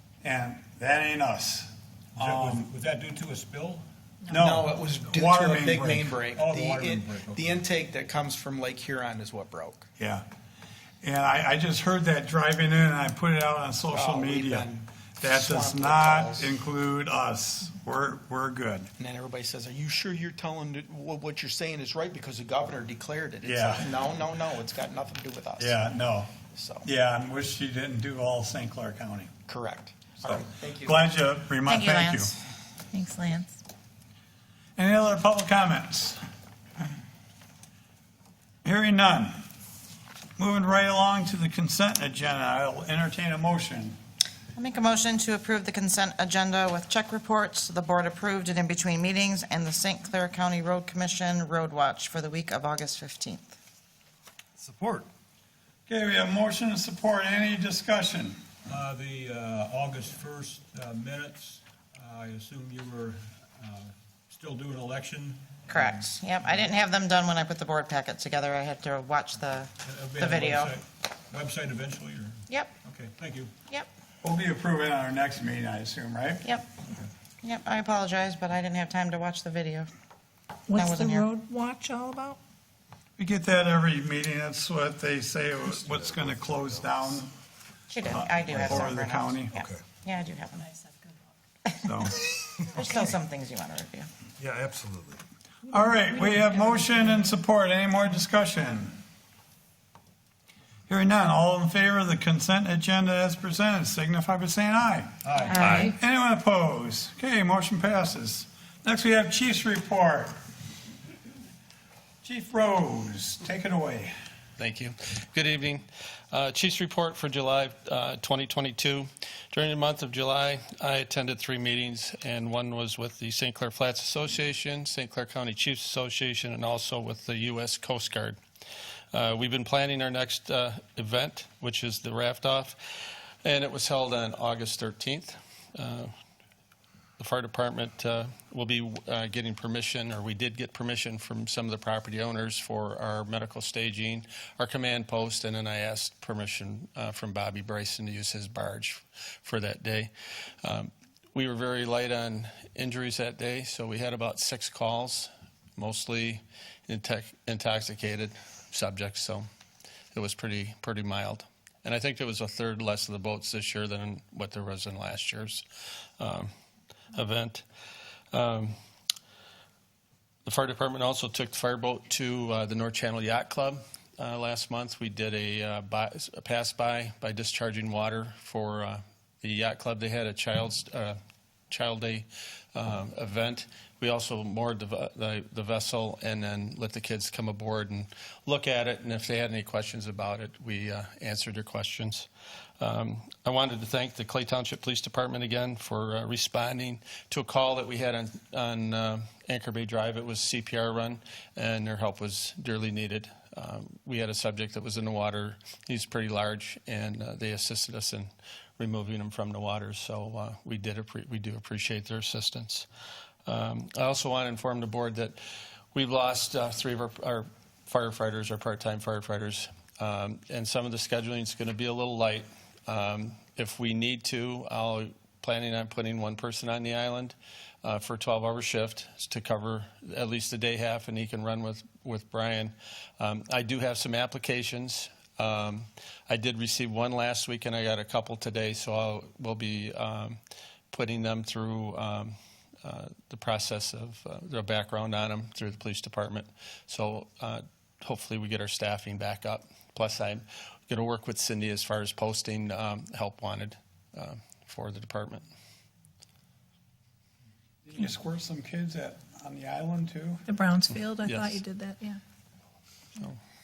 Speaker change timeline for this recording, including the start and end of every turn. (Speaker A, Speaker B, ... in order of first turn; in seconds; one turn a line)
Speaker A: 0.2-2.7
Speaker B: 2.1-3.8
Speaker A: 4.3-6.1
Speaker C: 4.3-9.9
Speaker B: 6.3-7.6
Speaker A: 10.0-10.2
Speaker A: 11.0-14.7
Speaker C: 13.9-16.5
Speaker A: 15.2-18.9
Speaker C: 19.0-25.8
Speaker A: 23.4-23.9
Speaker A: 25.6-26.3
Speaker C: 26.5-26.9
Speaker A: 26.8-29.3
Speaker C: 29.5-31.1
Speaker A: 30.2-32.3
Speaker D: 31.6-32.3
Speaker E: 32.9-33.5
Speaker A: 34.8-36.2
Speaker A: 38.6-39.4
Speaker A: 40.4-44.0
Speaker D: 44.5-53.5
Speaker F: 54.6-55.0
Speaker A: 55.9-58.4
Speaker B: 58.6-66.0
Speaker D: 65.7-70.7
Speaker B: 69.8-73.5
Speaker A: 74.2-76.4
Speaker D: 77.4-79.9
Speaker E: 80.7-82.4
Speaker D: 80.7-81.3
Speaker A: 83.2-87.3
Speaker F: 85.8-87.2
Speaker D: 87.9-90.7
Speaker A: 88.1-89.6
Speaker F: 88.5-88.8
Speaker A: 91.8-92.2
Speaker D: 92.7-94.1
Speaker F: 94.4-95.2
Speaker A: 95.7-98.9
Speaker A: 100.9-110.3
Speaker B: 105.2-105.6
Speaker G: 105.6-105.9
Speaker A: 112.2-114.1
Speaker G: 114.6-128.4
Speaker G: 129.1-132.8
Speaker G: 133.4-136.1
Speaker G: 137.2-150.1
Speaker G: 150.6-159.4
Speaker G: 160.1-165.6
Speaker G: 166.2-166.5
Speaker G: 167.1-167.6
Speaker G: 168.3-168.7
Speaker G: 170.4-181.2
Speaker G: 181.7-192.3
Speaker G: 192.8-212.9
Speaker G: 213.4-215.4
Speaker G: 215.9-240.4
Speaker G: 240.9-255.4
Speaker A: 257.8-260.4
Speaker E: 260.5-262.2
Speaker G: 261.2-261.6